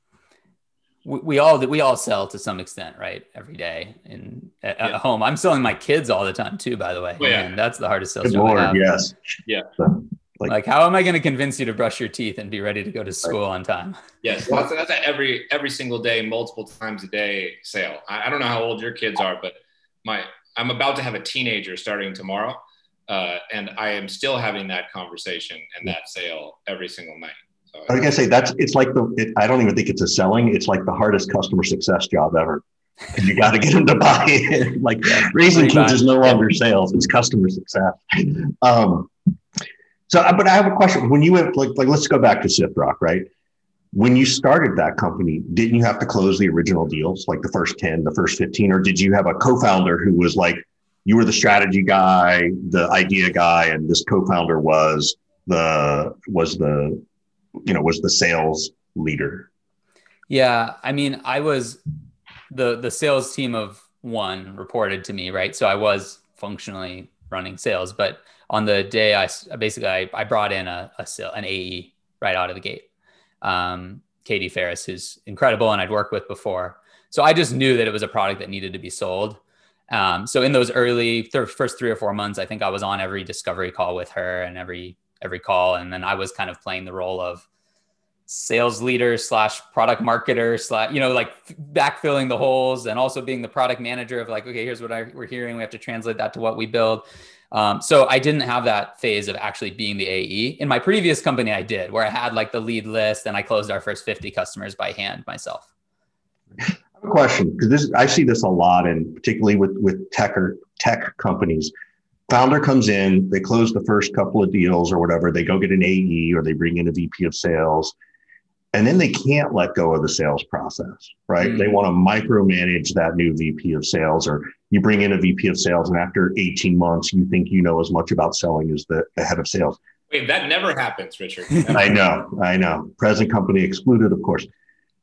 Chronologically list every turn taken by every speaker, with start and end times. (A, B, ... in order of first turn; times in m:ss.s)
0:01.0-0:08.8 A
0:07.2-0:07.6 B
0:08.2-0:10.5 C
0:10.5-0:14.0 A
0:14.2-0:28.0 B
0:27.9-0:32.6 C
0:33.1-0:39.1 C
0:35.0-0:36.4 A
0:40.1-0:43.3 C
0:43.9-0:57.0 C
0:57.6-0:59.5 C
1:00.3-1:01.8 A
1:02.5-1:12.9 A
1:13.4-1:19.4 A
1:19.9-1:27.4 A
1:28.3-1:45.7 A
1:47.0-1:51.7 C
1:52.3-1:58.0 C
1:58.7-2:09.8 C
2:01.4-2:01.8 A
2:10.1-2:11.9 B
2:11.7-2:14.5 C